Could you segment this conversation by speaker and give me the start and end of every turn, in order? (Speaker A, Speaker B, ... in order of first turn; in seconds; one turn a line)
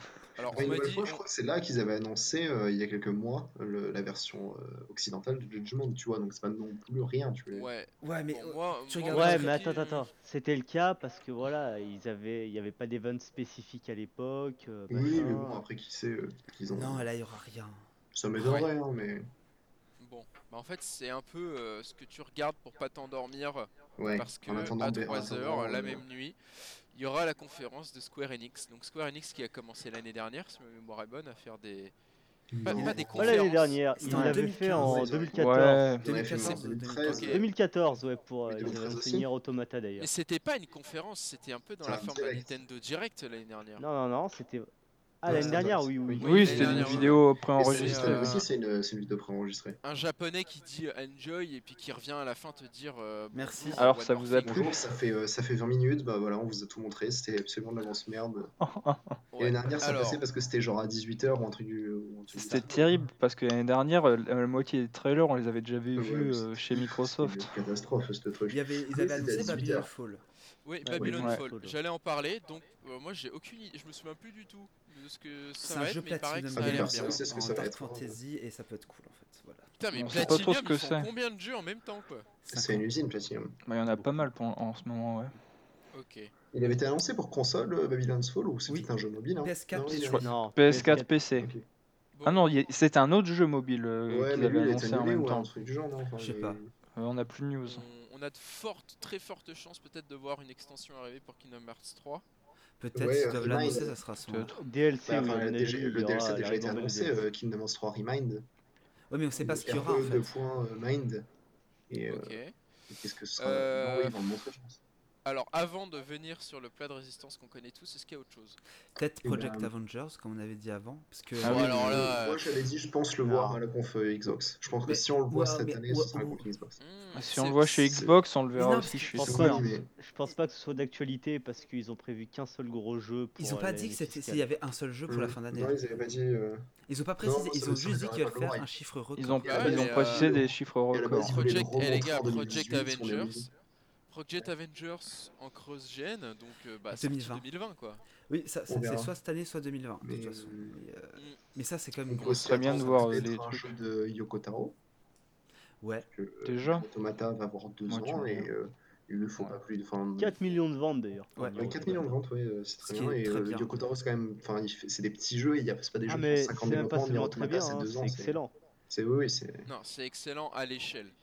Speaker A: 0.4-1.2
Speaker B: 0.4-0.8
Speaker C: 0.5-7.7
Speaker A: 7.5-10.1
Speaker B: 8.0-9.6
Speaker D: 9.1-15.6
Speaker C: 14.9-17.1
Speaker B: 16.7-17.9
Speaker C: 18.1-19.3
Speaker A: 18.4-18.7
Speaker A: 20.0-31.9
Speaker C: 24.0-26.0
Speaker C: 32.5-33.5
Speaker A: 32.6-33.8
Speaker B: 32.7-33.3
Speaker D: 33.1-36.0
Speaker B: 34.0-35.1
Speaker C: 34.0-37.4
Speaker E: 35.4-36.4
Speaker B: 36.0-37.4
Speaker A: 37.0-37.5
Speaker D: 37.2-40.1
Speaker C: 38.5-39.3
Speaker A: 40.0-43.9
Speaker C: 41.8-42.6
Speaker D: 43.8-44.7
Speaker D: 45.2-47.0
Speaker C: 45.3-49.8
Speaker B: 45.3-45.6
Speaker A: 46.2-48.5
Speaker E: 46.2-48.4
Speaker A: 49.8-54.8
Speaker B: 53.3-53.9
Speaker E: 53.8-54.9
Speaker C: 54.5-58.5
Speaker E: 58.6-59.2
Speaker A: 59.3-60.2
Speaker C: 59.4-63.1
Speaker E: 62.3-67.6
Speaker C: 66.0-69.9
Speaker B: 68.5-70.2
Speaker A: 70.7-77.2
Speaker D: 70.8-71.8
Speaker B: 75.6-79.7
Speaker C: 76.6-78.2
Speaker A: 79.8-82.3
Speaker E: 79.9-81.1
Speaker B: 82.5-82.9
Speaker C: 82.5-83.6
Speaker E: 83.7-85.3
Speaker A: 85.9-86.3
Speaker C: 86.5-90.3
Speaker B: 88.7-90.3
Speaker E: 90.1-91.5
Speaker D: 90.2-91.2
Speaker C: 91.4-91.7
Speaker A: 92.2-92.5
Speaker E: 92.2-95.5
Speaker C: 94.1-96.7
Speaker B: 96.2-96.6
Speaker E: 97.0-97.9
Speaker A: 97.7-102.2
Speaker B: 102.8-104.6
Speaker C: 103.0-104.0
Speaker E: 104.3-104.6
Speaker D: 104.5-107.2
Speaker C: 105.1-108.5
Speaker B: 109.1-110.3
Speaker C: 109.4-111.3
Speaker C: 111.9-112.4
Speaker A: 112.1-112.5
Speaker C: 112.9-114.8
Speaker A: 113.4-114.2
Speaker A: 115.2-118.6
Speaker B: 119.0-122.1
Speaker C: 119.2-119.7
Speaker E: 121.4-122.0
Speaker A: 121.4-122.5
Speaker C: 121.6-126.8
Speaker D: 123.2-123.6
Speaker B: 124.9-126.5
Speaker A: 126.8-127.9
Speaker E: 127.2-129.6
Speaker C: 127.9-128.2
Speaker B: 128.6-129.6
Speaker C: 129.2-129.9
Speaker D: 129.2-134.5
Speaker B: 133.4-135.8
Speaker C: 135.1-136.7
Speaker B: 136.9-139.8
Speaker C: 137.2-138.7
Speaker E: 139.2-141.4
Speaker A: 139.4-140.3
Speaker C: 139.5-143.5
Speaker A: 141.2-143.5
Speaker A: 144.1-148.0
Speaker B: 146.9-147.5
Speaker B: 148.3-153.1
Speaker C: 148.7-149.1
Speaker C: 150.0-150.8
Speaker C: 152.1-154.8
Speaker E: 152.2-153.8
Speaker B: 155.8-156.1
Speaker C: 156.1-160.4
Speaker E: 156.4-156.9
Speaker E: 157.9-158.5
Speaker D: 160.2-162.1
Speaker B: 161.4-161.8
Speaker C: 161.6-169.7
Speaker B: 162.8-163.8
Speaker D: 166.1-168.5
Speaker A: 169.7-171.1